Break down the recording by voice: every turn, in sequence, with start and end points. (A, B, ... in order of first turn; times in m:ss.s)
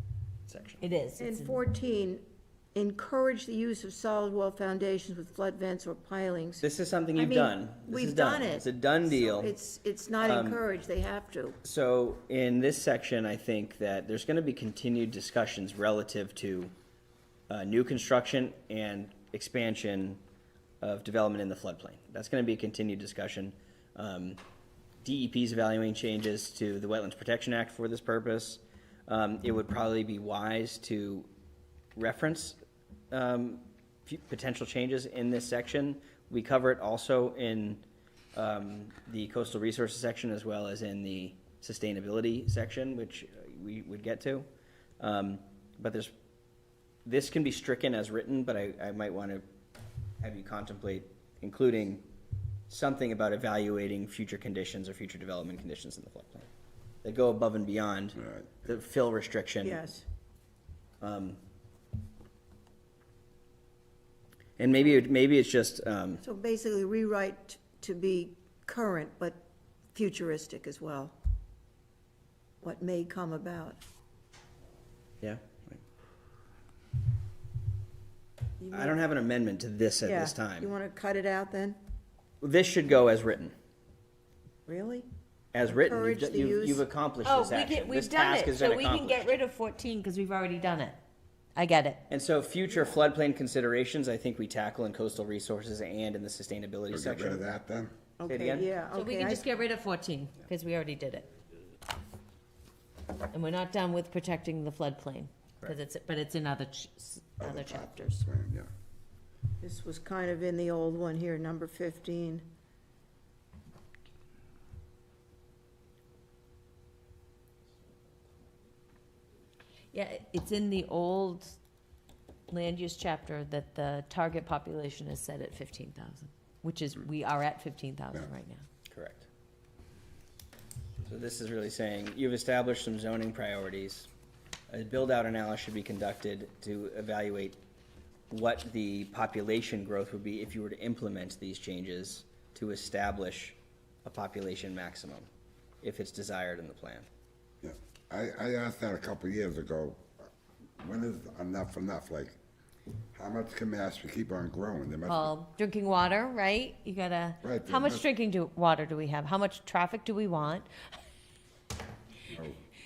0:00.5-0:00.8 A
0:00.8-0:01.6 B
0:01.2-0:11.6 C
0:06.6-0:09.6 A
0:10.2-0:10.6 A
0:11.6-0:16.7 A
0:17.5-0:20.2 A
0:20.8-0:24.4 A
0:25.0-0:31.3 A
0:32.0-0:32.6 A
0:33.1-0:44.5 A
0:45.0-0:46.1 A
0:47.0-0:49.4 A
0:50.2-0:52.0 A
0:52.7-0:56.5 A
0:57.0-0:59.8 A
0:58.2-0:58.6 D
0:59.6-1:00.1 C
1:01.0-1:01.4 A
1:04.6-1:06.2 A
1:06.2-1:11.2 C
1:12.6-1:13.8 C
1:15.2-1:15.8 A
1:18.6-1:19.0 C
1:18.7-1:20.7 A
1:20.0-1:21.8 C
1:22.4-1:23.5 A
1:24.7-1:25.1 C
1:25.5-1:29.3 A
1:25.6-1:26.9 C
1:27.2-1:31.0 B
1:31.6-1:32.0 B
1:32.1-1:37.5 A
1:36.9-1:37.9 D
1:38.2-1:39.5 C
1:38.3-1:38.7 A
1:38.9-1:41.3 B
1:43.3-1:48.3 B
1:47.4-1:48.7 D
1:49.6-1:52.4 C
1:59.9-2:01.6 B
2:02.5-2:08.6 B
2:08.9-2:09.3 A
2:11.1-2:14.1 A
2:14.7-2:17.6 A
2:18.3-2:25.3 A
2:25.8-2:27.1 A
2:27.6-2:30.0 D
2:30.8-2:32.4 D
2:33.2-2:35.3 D
2:35.1-2:40.7 B
2:37.4-2:38.0 D
2:42.3-2:42.6 D